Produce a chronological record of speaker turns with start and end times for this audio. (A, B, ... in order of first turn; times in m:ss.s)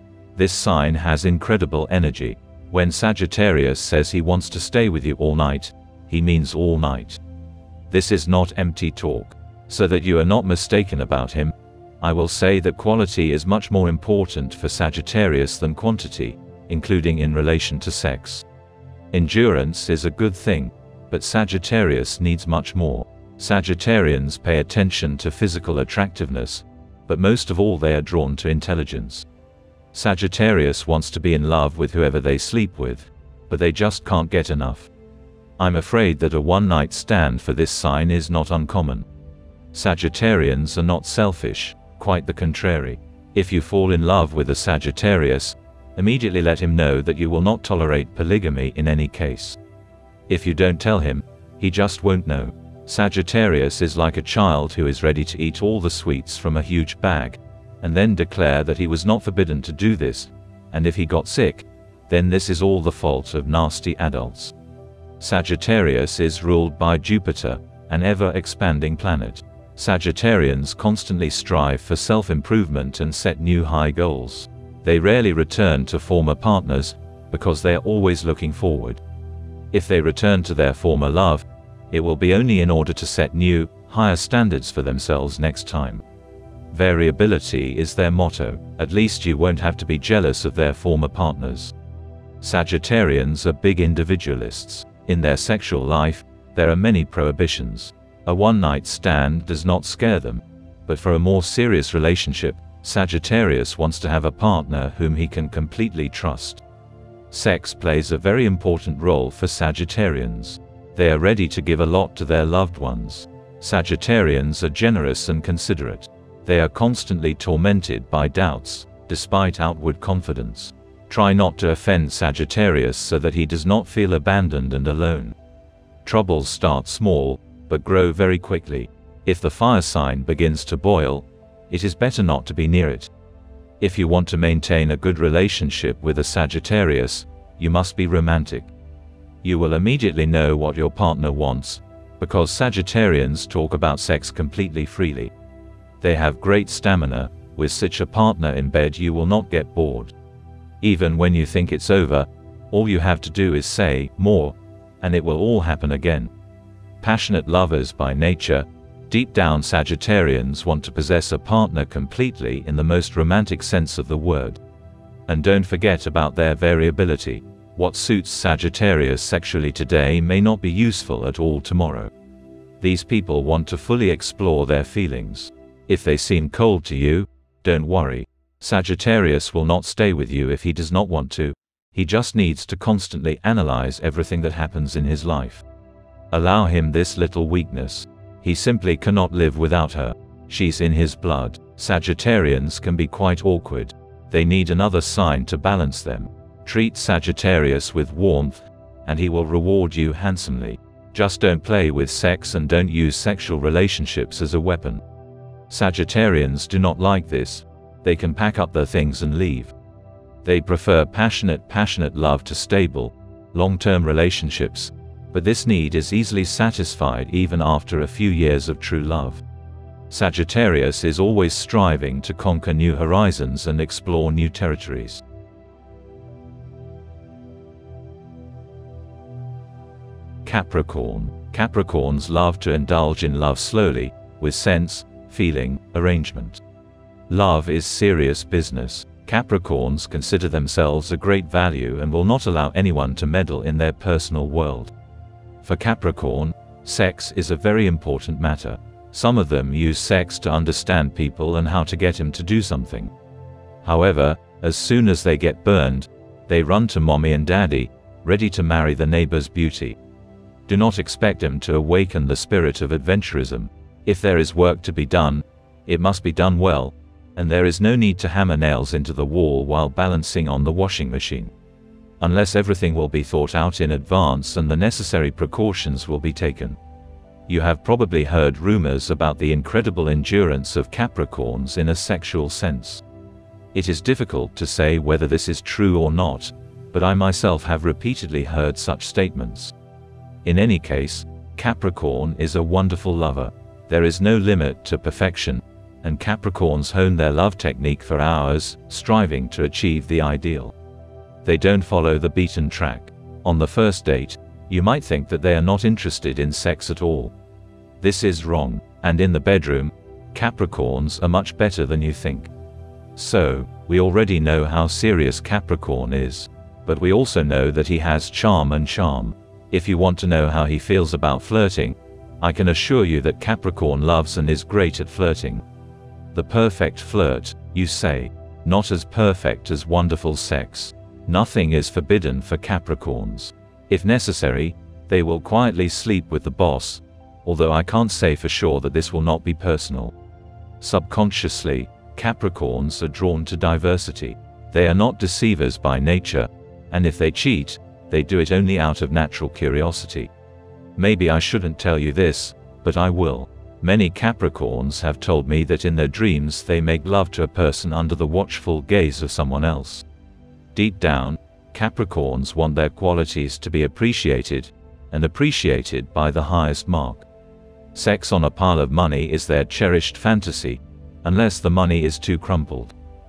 0:00.4-0:07.2 A
0:07.9-0:18.4 A
0:19.1-0:29.3 A
0:29.9-0:34.9 A
0:35.6-0:39.1 A
0:39.7-0:49.6 A
0:50.3-1:04.5 A
1:05.2-1:19.0 A
1:19.7-1:26.0 A
1:26.7-1:31.7 A
1:32.4-1:46.6 A
1:47.3-2:05.4 A
2:06.0-2:13.1 A
2:13.8-2:18.7 A
2:19.4-2:25.3 A
2:26.0-2:30.1 A
2:30.8-2:36.3 A
2:37.0-2:44.6 A
2:45.3-2:52.1 A
2:52.8-3:05.6 A
3:06.3-3:25.0 A
3:25.7-3:29.7 A
3:30.4-3:39.4 A
3:40.1-3:45.2 A
3:50.4-3:56.6 A
3:57.3-4:04.9 A
4:05.6-4:13.1 A
4:13.8-4:20.0 A
4:20.7-4:31.5 A
4:32.2-4:36.8 A
4:37.5-4:43.0 A
4:43.7-4:49.7 A
4:50.4-5:00.8 A
5:01.4-5:07.3 A
5:08.0-5:12.5 A
5:13.2-5:25.6 A
5:26.3-5:40.1 A
5:40.8-5:50.3 A
5:51.0-6:00.0 A
6:00.8-6:07.3 A
6:08.0-6:12.9 A